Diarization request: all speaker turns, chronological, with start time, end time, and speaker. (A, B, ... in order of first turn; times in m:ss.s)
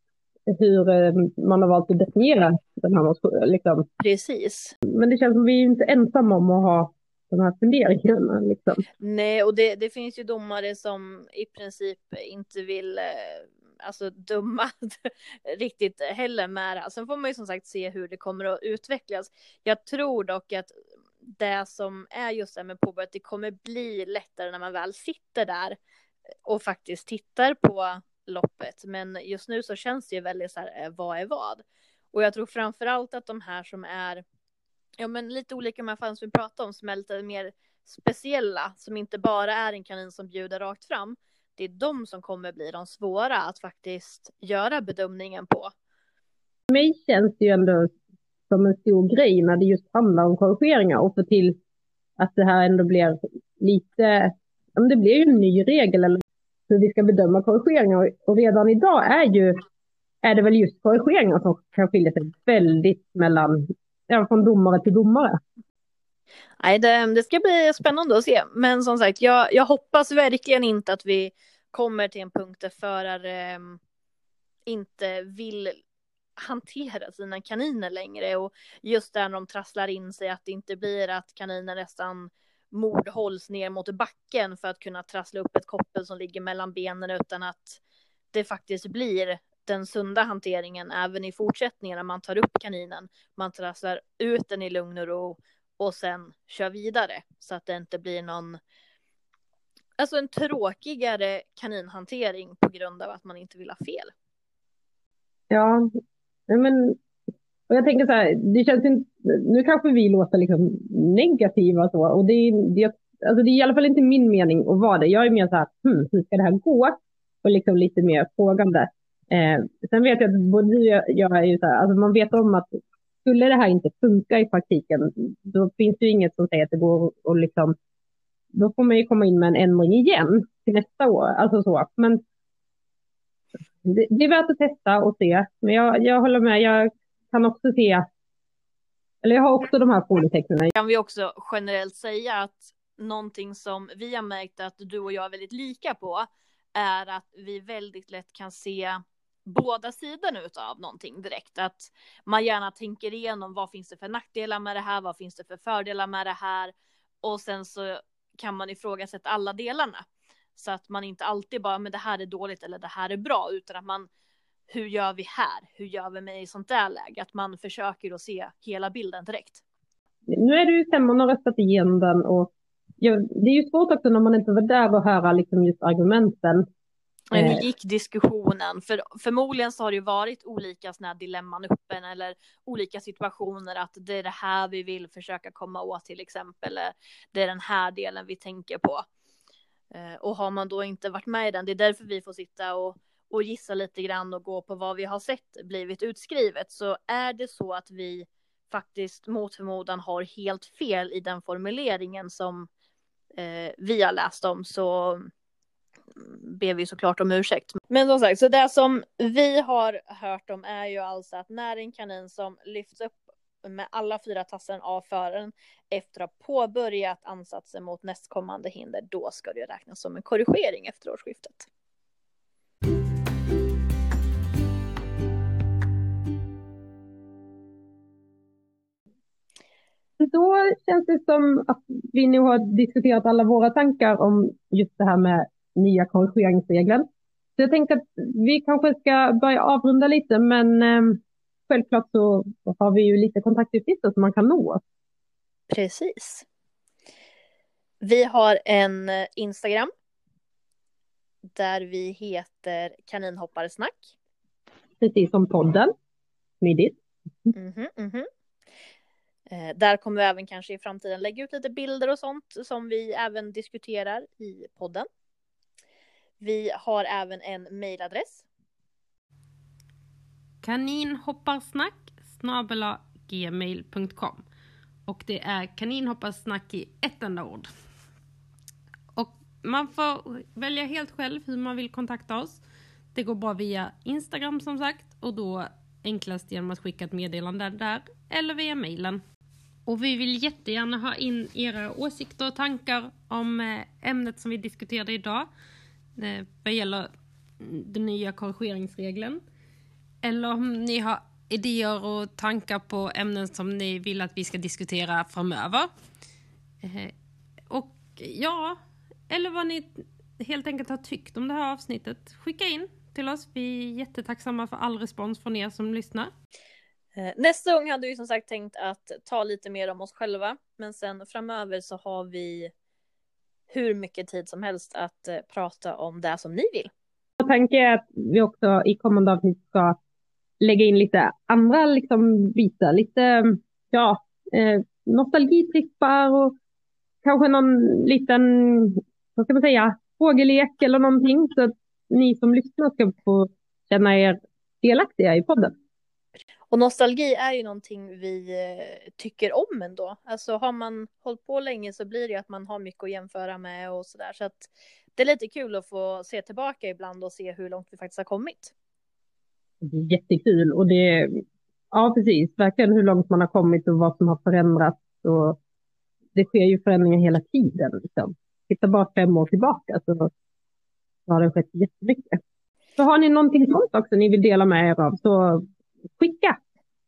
0:00.5-0:03.9 A
0:04.0-0:04.8 B
0:04.9-0:08.8 A
0:09.0-0:25.8 B
0:26.5-0:34.2 B
0:35.0-0:45.7 B
0:46.7-0:47.9 A
0:48.5-0:51.6 A
0:52.2-0:59.6 A
1:00.2-1:05.4 A
1:06.6-1:13.8 B
1:14.7-1:15.8 B
1:16.4-1:27.8 B
1:28.3-1:38.6 B
1:40.0-1:44.1 B
1:45.5-1:45.9 A
1:46.5-1:47.0 A
1:47.7-2:07.8 A
2:08.5-2:12.2 A
2:13.8-2:18.0 A
2:19.2-2:20.7 A
2:20.8-2:40.0 B
2:40.6-2:44.1 B
2:44.7-2:49.6 B
2:50.3-2:56.6 A
2:57.3-3:09.1 B
2:57.3-2:57.6 A
3:09.9-3:22.7 B
3:23.4-3:25.3 B
3:26.2-3:41.7 B
3:50.2-3:57.0 A
3:57.6-4:04.8 A
4:05.7-4:06.4 B
4:08.0-4:09.9 B
4:11.6-4:14.2 B
4:15.0-4:15.9 A
4:16.6-4:17.5 A
4:17.5-4:18.3 B
4:19.5-4:25.1 B
4:26.4-4:28.5 B
4:30.6-4:34.4 C
4:35.1-4:37.7 C
4:39.2-4:42.6 C
4:43.1-4:49.2 C
4:49.9-4:55.5 C
4:56.2-4:57.1 C
4:57.6-4:59.4 C
5:00.2-5:05.9 C
5:06.8-5:07.1 C
5:07.7-5:16.3 C
5:17.2-5:22.7 B
5:23.7-5:26.9 B
5:27.4-5:30.0 A
5:30.6-5:36.6 A
5:37.2-5:45.7 A
5:46.7-5:58.7 B
5:59.8-6:05.6 A
6:06.4-6:10.3 A
6:11.3-6:12.4 A
6:13.0-6:15.6 A
6:16.2-6:16.6 A